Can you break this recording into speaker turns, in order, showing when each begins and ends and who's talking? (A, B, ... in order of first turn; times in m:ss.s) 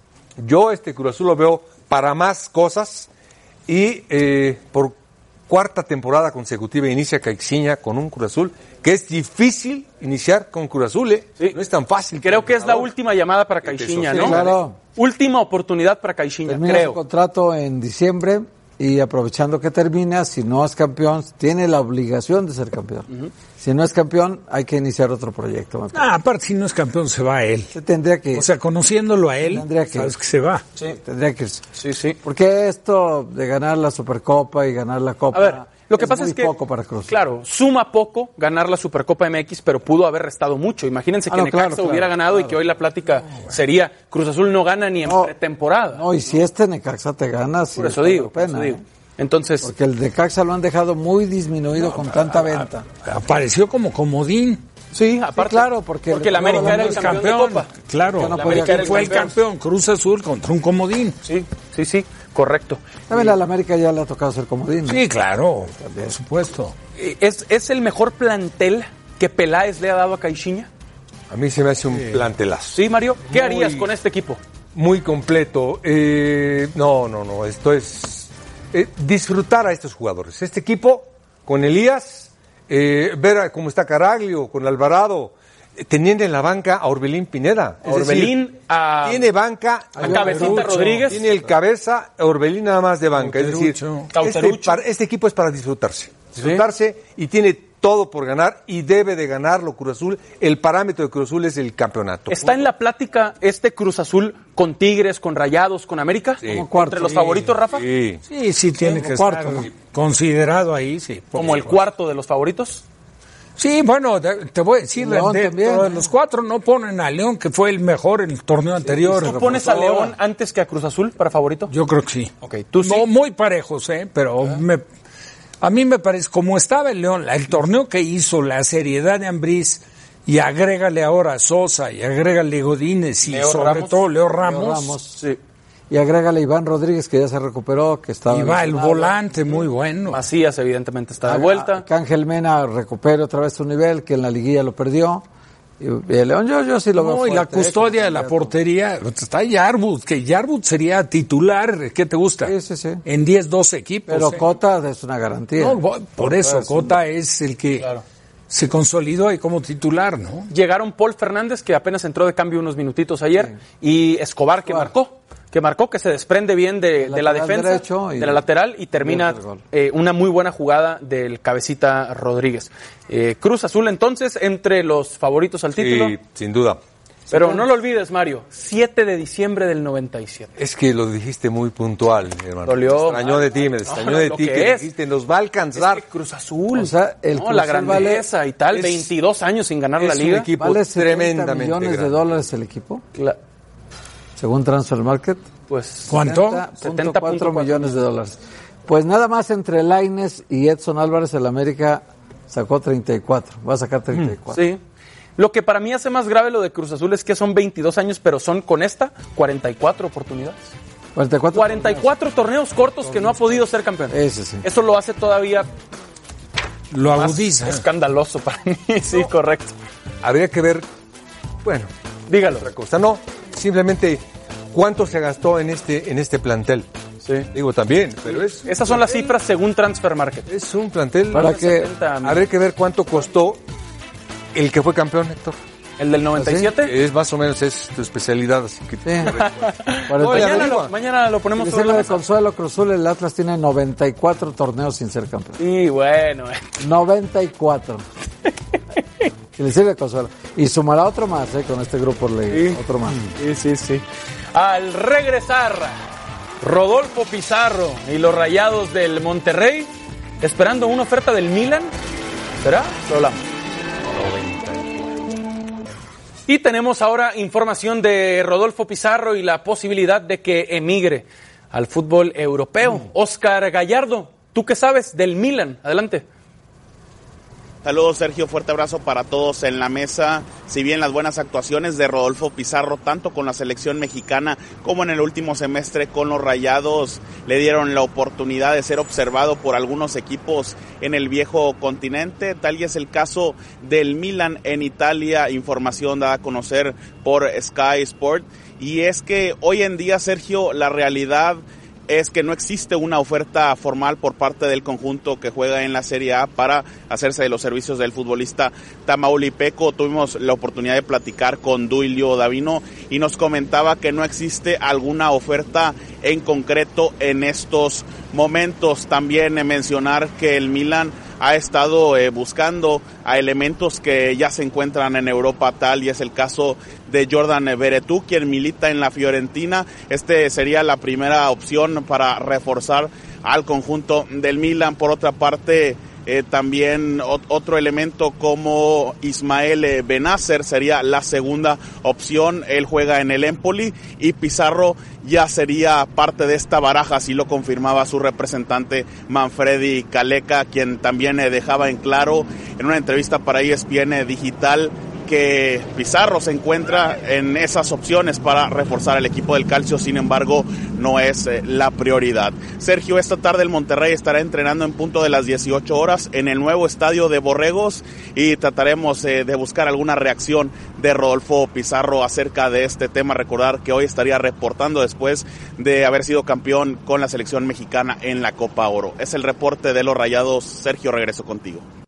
0:00.4-0:03.1 A
0:03.7-0:05.0 A
0:05.5-0:12.9 A
0:12.2-0:17.0 B
0:13.6-0:14.5 A
0:14.1-0:14.8 C
0:16.4-0:26.1 C
0:25.9-0:27.7 D
0:27.7-0:28.5 C
0:28.3-0:30.6 D
0:29.4-0:30.2 C
0:30.9-0:31.6 C
0:31.8-0:32.2 B
0:32.2-0:37.1 C
0:35.3-0:36.5 B
0:37.1-0:46.0 B
0:41.3-0:42.6 C
0:45.0-0:45.3 C
0:45.9-0:48.8 C
0:47.8-0:49.7 B
0:49.6-0:52.8 C
0:51.8-0:54.6 D
0:54.9-0:57.7 B
0:55.3-0:57.2 C
0:56.4-1:01.2 D
0:58.1-0:59.4 C
0:58.3-0:59.3 B
1:01.2-1:03.3 B
1:03.1-1:05.0 C
1:04.9-1:06.7 D
1:05.6-1:06.2 C
1:07.0-1:10.7 B
1:11.3-1:13.9 A
1:12.7-1:14.4 B
1:14.7-1:28.4 A
1:27.8-1:29.3 B
1:29.0-1:42.6 A
1:30.0-1:31.2 B
1:30.0-1:31.3 C
1:30.1-1:31.0 D
1:33.2-1:34.1 D
1:34.1-1:34.8 B
1:42.3-1:47.8 B
1:46.4-1:46.7 A
1:46.4-1:47.5 C
1:47.6-1:48.2 A
1:48.3-1:51.8 D
1:48.8-1:49.7 C
1:51.3-1:52.8 B
1:53.6-1:59.4 D
1:55.0-1:56.1 C
1:58.8-2:00.2 C
1:59.1-2:01.7 B
2:01.7-2:04.8 D
2:02.4-2:03.1 B
2:05.6-2:15.0 D
2:13.2-2:14.0 B
2:14.4-2:15.2 C
2:15.9-2:19.4 C
2:18.3-2:20.2 D
2:20.1-2:21.8 B
2:21.2-2:25.2 C
2:25.8-2:28.5 C
2:27.0-2:34.4 D
2:32.4-2:33.0 C
2:34.1-2:37.0 C
2:35.6-2:37.9 D
2:38.5-2:40.5 D
2:40.5-2:56.2 B
2:44.6-2:44.9 C
2:47.0-2:48.4 C
2:49.0-2:49.6 C
2:55.8-2:56.8 A
2:57.3-2:57.6 C
2:57.3-3:00.5 B
3:00.6-3:06.0 A
3:02.6-3:04.9 B
3:05.7-3:10.5 B
3:06.7-3:08.3 C
3:08.7-3:09.1 A
3:10.0-3:12.2 A
3:10.6-3:13.0 C
3:14.4-3:15.5 C
3:15.7-3:16.2 B
3:16.1-3:16.6 D
3:16.1-3:24.6 C
3:16.8-3:18.0 B
3:24.5-3:24.8 B
3:25.4-3:30.7 B
3:31.1-3:32.1 C
3:31.5-3:35.7 B
3:33.0-3:34.6 C
3:36.9-3:37.8 D
3:37.1-3:39.7 B
3:40.2-3:40.8 A
3:41.6-3:41.9 A
3:42.3-3:42.7 B
3:42.5-3:46.9 A
3:47.2-3:47.5 B
3:47.5-3:49.3 A
3:48.3-3:50.5 B
3:50.5-3:51.6 A
3:51.3-3:51.9 C
3:51.3-3:52.4 B
3:52.2-3:53.6 A
3:54.5-3:55.6 A
3:56.0-3:56.9 B
3:56.3-3:56.7 C
3:56.8-4:00.9 A
3:59.0-3:59.4 C
3:59.3-4:02.2 B
4:00.1-4:00.8 C
4:01.6-4:05.6 C
4:05.6-4:06.6 B
4:06.8-4:08.0 C
4:09.5-4:13.3 C
4:12.5-4:12.8 B
4:13.3-4:16.0 B
4:16.6-4:21.9 B
4:22.6-4:23.4 B
4:24.0-4:25.1 A
4:26.5-4:36.2 B
4:37.8-6:21.8 E